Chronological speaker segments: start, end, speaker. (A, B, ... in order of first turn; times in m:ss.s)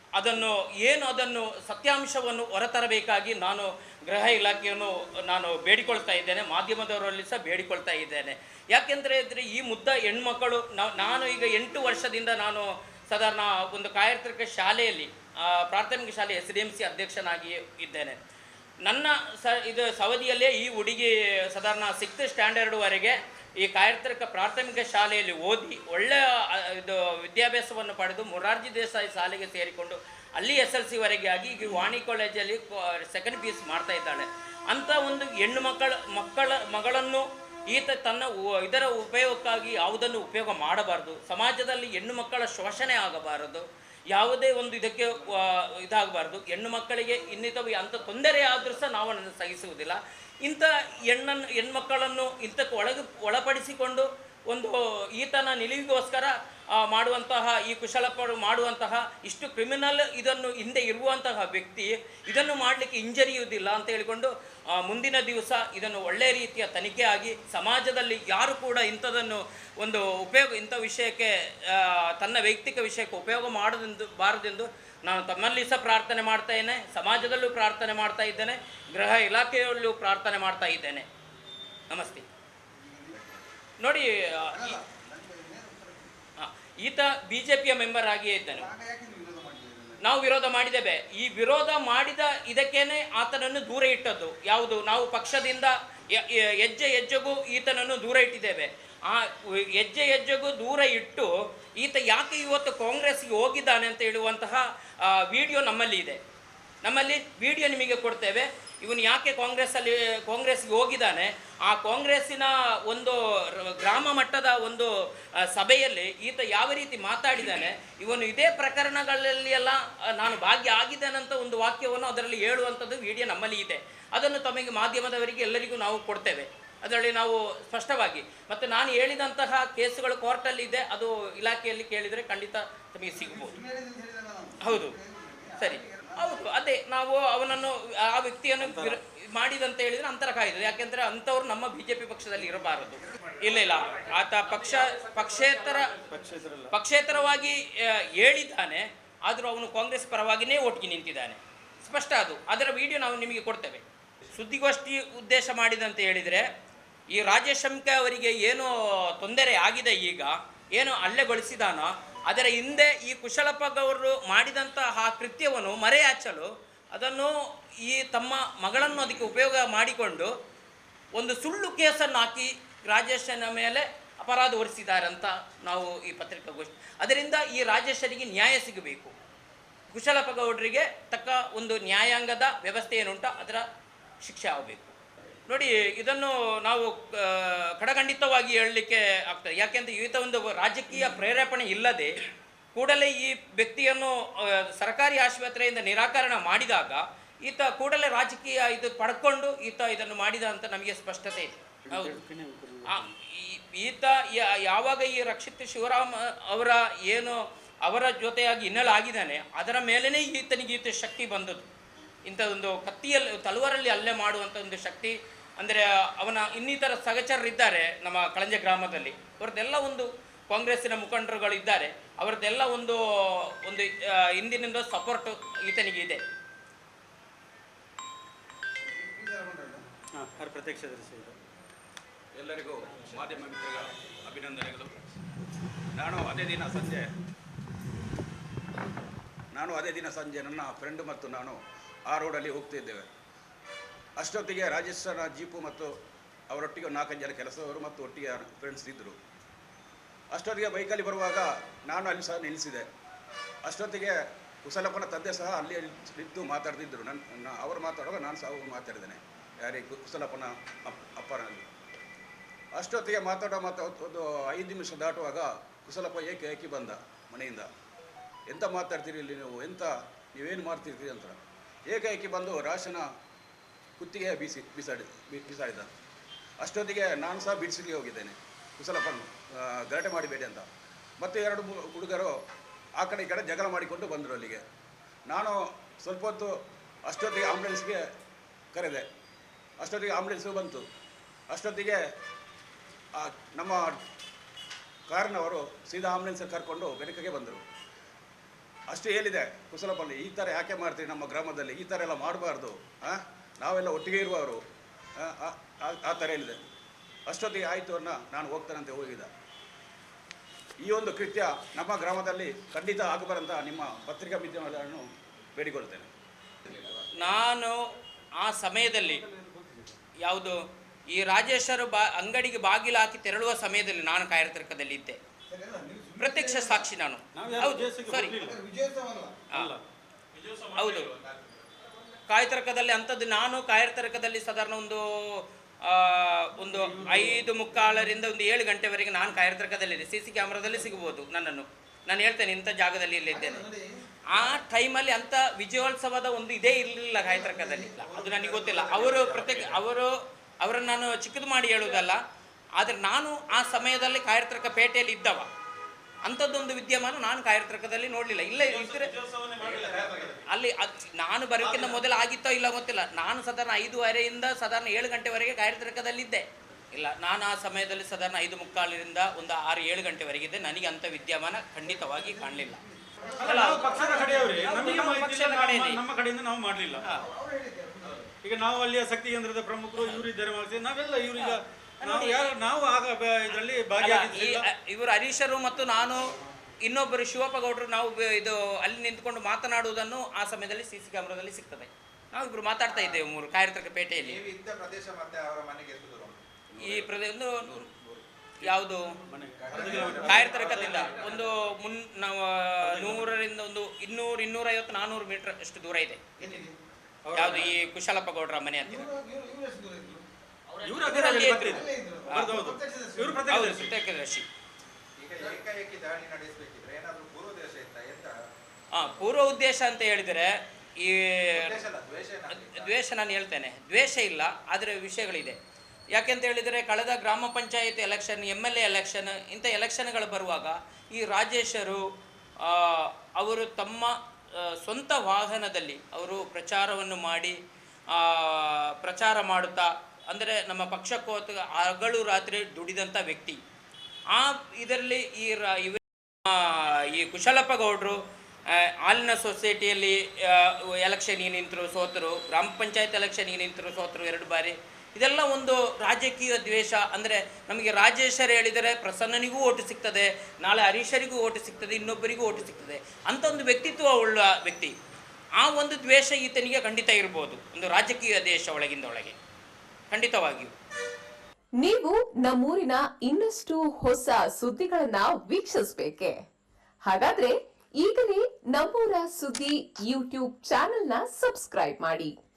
0:00.2-0:18.2 A
0:18.8-1:21.1 A
1:21.9-1:22.2 A
1:22.8-1:23.4 B
1:23.8-1:24.8 A
1:24.5-1:26.1 B
1:26.4-1:28.7 A
1:28.5-1:30.0 B
1:30.0-1:46.2 A
1:46.8-2:13.6 A
2:13.1-2:16.1 B
2:14.6-2:15.0 A
2:15.6-2:26.0 A
2:18.6-2:18.9 C
2:26.1-2:26.7 C
2:26.7-2:36.5 A
2:37.1-2:50.3 A
2:51.1-2:59.1 A
2:59.9-3:03.6 A
3:04.2-3:04.9 A
3:05.5-3:12.2 A
3:12.7-3:22.2 A
3:21.9-3:23.0 C
3:22.9-3:31.7 A
3:32.2-3:46.2 A
3:48.9-3:49.8 B
3:50.2-3:51.4 C
3:52.3-3:55.0 D
3:56.0-3:57.1 D
3:59.5-4:03.1 D
4:04.2-4:05.9 D
4:06.5-4:09.2 D
4:10.3-4:12.9 D
4:13.6-4:21.6 D
4:22.8-4:27.7 D
4:28.5-4:33.1 D
4:34.0-4:35.9 D
4:36.6-4:40.7 D
4:41.2-4:42.4 D
4:43.0-4:44.6 D
4:45.3-4:46.5 D
4:47.0-4:48.0 D
4:48.7-4:49.1 D
4:49.8-4:50.8 D
4:51.5-4:52.0 D
4:53.1-4:54.0 D
4:55.1-4:57.6 D
4:58.9-5:04.6 D
5:05.2-5:06.6 D
5:07.3-5:09.3 D
5:10.8-5:16.1 D
5:17.2-5:17.8 A
5:18.4-5:19.2 A
5:20.2-5:25.2 A
5:25.5-5:26.8 B
5:26.2-5:28.4 A
5:27.4-5:28.6 C
5:28.4-5:29.4 B
5:29.5-5:29.8 C
5:30.8-5:31.1 A
5:32.3-5:43.7 A
5:36.9-5:37.2 C
5:43.3-5:44.0 B
5:44.3-5:52.2 A
5:47.2-5:49.8 B
5:52.8-5:55.5 A
5:56.2-6:12.8 A
5:58.9-5:59.7 C
5:59.8-6:00.4 B
6:11.8-6:14.8 B
6:13.4-6:17.0 C
6:13.4-6:16.0 A
6:17.2-6:18.3 B
6:18.4-6:24.6 C
6:21.4-6:22.5 A
6:24.0-6:34.4 A
6:32.9-6:33.2 B
6:34.2-6:36.4 B
6:36.7-6:38.2 D
6:36.8-6:37.8 A
6:38.6-6:39.2 A
6:39.3-6:41.2 C
6:39.6-6:41.6 B
6:40.1-6:46.7 A
6:42.8-6:43.3 C
6:46.4-6:46.8 B
6:47.2-6:47.7 C
6:47.3-6:49.1 A
6:48.8-6:50.2 B
6:50.8-6:52.6 A
6:50.8-6:53.9 C
6:51.6-6:53.5 B
6:53.5-6:54.5 A
6:55.2-6:58.3 B
6:58.9-7:01.8 A
7:01.6-7:02.9 B
7:02.5-7:05.6 A
7:06.1-7:12.0 A
7:12.6-7:17.6 A
7:18.1-7:23.6 A
7:24.3-7:28.2 A
7:28.7-7:44.9 A
7:45.6-7:49.4 A
7:50.1-7:50.7 A
7:51.8-7:56.4 E
7:57.0-8:02.4 E